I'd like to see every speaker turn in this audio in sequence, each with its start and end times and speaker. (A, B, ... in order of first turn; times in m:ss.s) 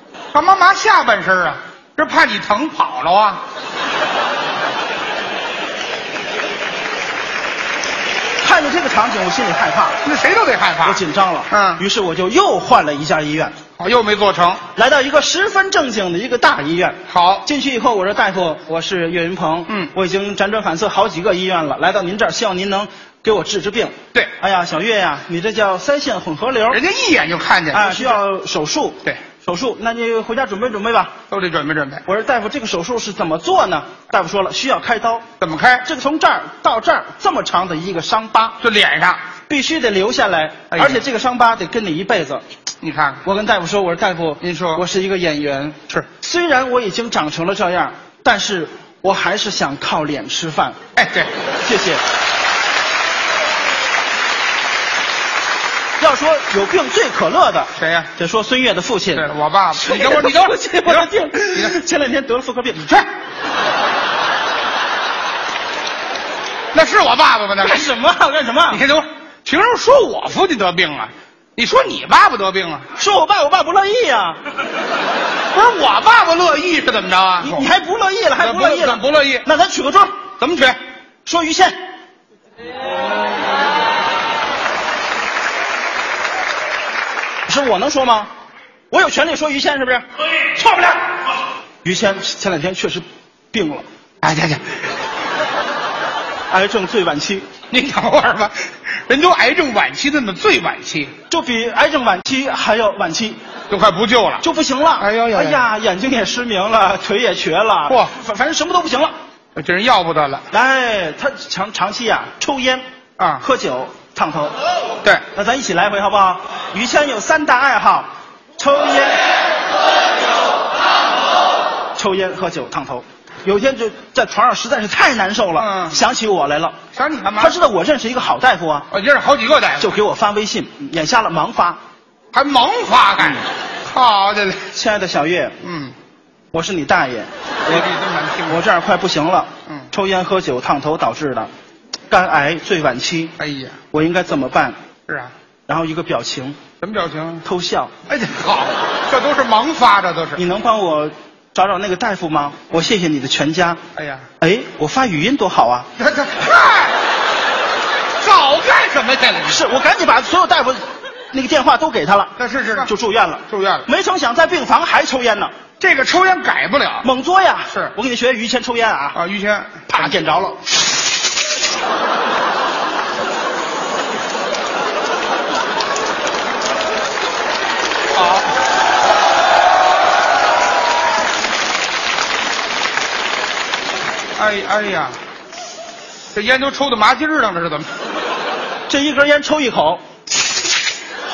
0:00.3-0:03.4 A
0:08.4-0:10.0 B
0:10.0-0:11.8 A
0:10.8-0:13.6 B
0:13.8-0:14.6 A
0:14.7-0:26.8 B
0:17.1-0:17.5 A
0:26.7-0:28.2 A
0:27.7-0:31.1 B
0:31.3-0:32.0 A
0:32.1-0:35.2 B
0:35.4-0:35.8 A
0:35.8-0:38.6 B
0:38.6-0:39.2 A
0:39.5-0:42.4 B
0:40.7-0:41.1 A
0:42.8-0:43.2 A
0:43.2-0:50.8 B
0:44.4-0:44.8 A
0:51.0-0:51.3 A
0:51.6-0:52.0 B
0:56.0-1:03.0 B
0:57.8-0:58.1 A
0:59.1-1:01.8 A
1:06.7-1:07.9 A
1:07.6-1:08.8 B
1:08.7-1:12.8 A
1:13.0-1:14.4 B
1:15.5-1:17.7 A
1:17.4-1:20.2 B
1:18.4-1:19.4 A
1:20.4-1:20.8 A
1:21.2-1:21.8 B
1:27.4-1:28.3 B
1:28.9-1:31.0 B
1:31.8-1:33.8 B
1:34.2-1:34.6 A
1:36.5-1:37.5 B
1:37.7-1:38.6 A
1:39.1-1:41.1 A
1:41.3-1:43.4 B
1:43.7-1:44.4 A
1:44.4-1:49.1 B
1:45.0-1:45.6 A
1:47.9-1:48.1 A
1:49.6-1:50.4 A
1:50.5-1:52.8 B
1:53.2-1:53.4 A
1:53.4-1:54.6 B
1:55.3-1:59.2 B
2:01.9-2:06.8 B
2:05.6-2:06.0 A
2:06.9-2:07.6 A
2:07.4-2:08.9 B
2:08.9-2:10.0 A
2:09.8-2:11.8 B
2:12.3-2:14.7 A
2:14.7-2:15.6 B
2:15.6-2:15.9 A
2:16.5-2:17.9 B
2:17.6-2:18.6 A
2:18.4-2:21.5 B
2:22.1-2:23.3 B
2:23.4-2:23.8 A
2:23.9-2:24.8 B
2:25.1-2:25.3 A
2:25.7-2:26.6 B
2:26.8-2:27.4 A
2:27.4-2:27.9 B
2:28.1-2:30.4 A
2:30.4-2:33.8 B
2:33.9-2:34.2 A
2:34.4-2:35.9 B
2:36.0-2:36.9 A
2:38.2-2:39.7 A
2:39.4-2:45.5 B
2:42.4-2:42.9 A
2:43.5-2:43.8 A
2:45.8-2:47.1 A
2:47.0-2:49.2 B
2:49.1-2:50.2 A
2:49.9-2:50.6 B
2:58.1-2:58.5 A
3:04.4-3:05.2 A
3:06.3-3:07.9 A
3:08.9-3:10.0 B